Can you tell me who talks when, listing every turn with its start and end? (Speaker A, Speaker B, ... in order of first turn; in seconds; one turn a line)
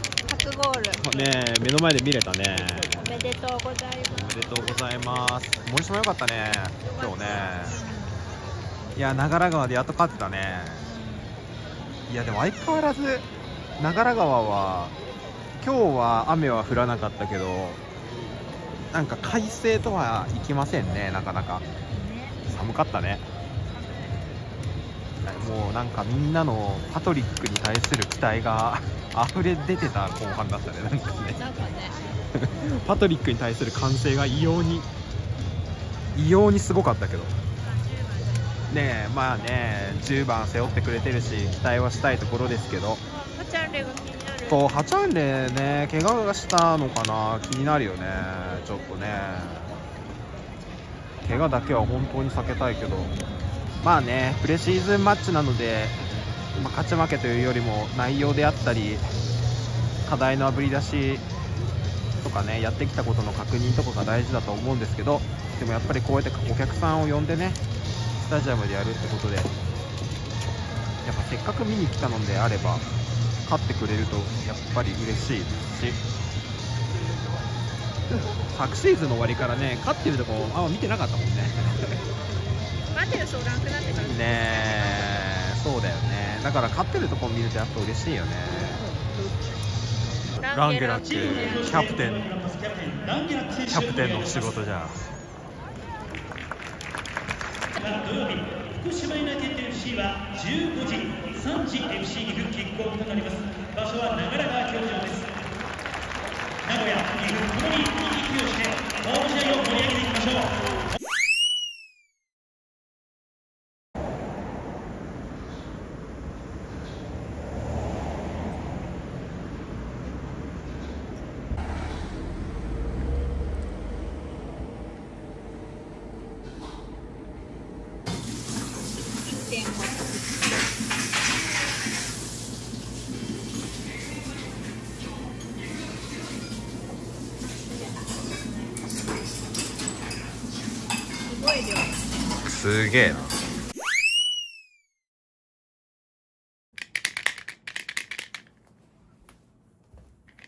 Speaker A: 0.3-1.3
Speaker B: 1.0-3.1
Speaker A: 2.9-4.6
Speaker B: 4.1-7.8
Speaker A: 6.9-8.2
Speaker B: 8.9-10.8
Speaker A: 10.7-11.3
Speaker B: 12.1-13.2
Speaker B: 13.8-14.9
Speaker B: 15.6-17.8
Speaker B: 18.9-21.6
Speaker A: 21.9-22.4
Speaker B: 22.4-23.2
Speaker B: 25.2-31.4
Speaker A: 31.4-32.0
Speaker B: 32.4-34.9
Speaker B: 36.1-37.3
Speaker A: 37.8-38.5
Speaker B: 38.7-43.0
Speaker A: 43.1-44.7
Speaker B: 44.5-49.7
Speaker B: 51.2-53.1
Speaker B: 53.8-56.0
Speaker B: 56.5-59.1
Speaker B: 60.0-61.2
Speaker B: 62.2-67.6
Speaker B: 68.2-69.5
Speaker B: 71.0-72.9
Speaker B: 73.4-76.0
Speaker B: 78.1-82.0
Speaker A: 82.9-84.5
Speaker B: 83.9-88.8
Speaker A: 90.4-91.8
Speaker B: 90.4-92.3
Speaker C: 91.0-94.5
Speaker B: 93.7-95.0
Speaker C: 97.8-105.4
Speaker C: 106.6-110.7
Speaker A: 129.5-130.0
Speaker A: 141.2-142.0
Speaker B: 142.4-143.4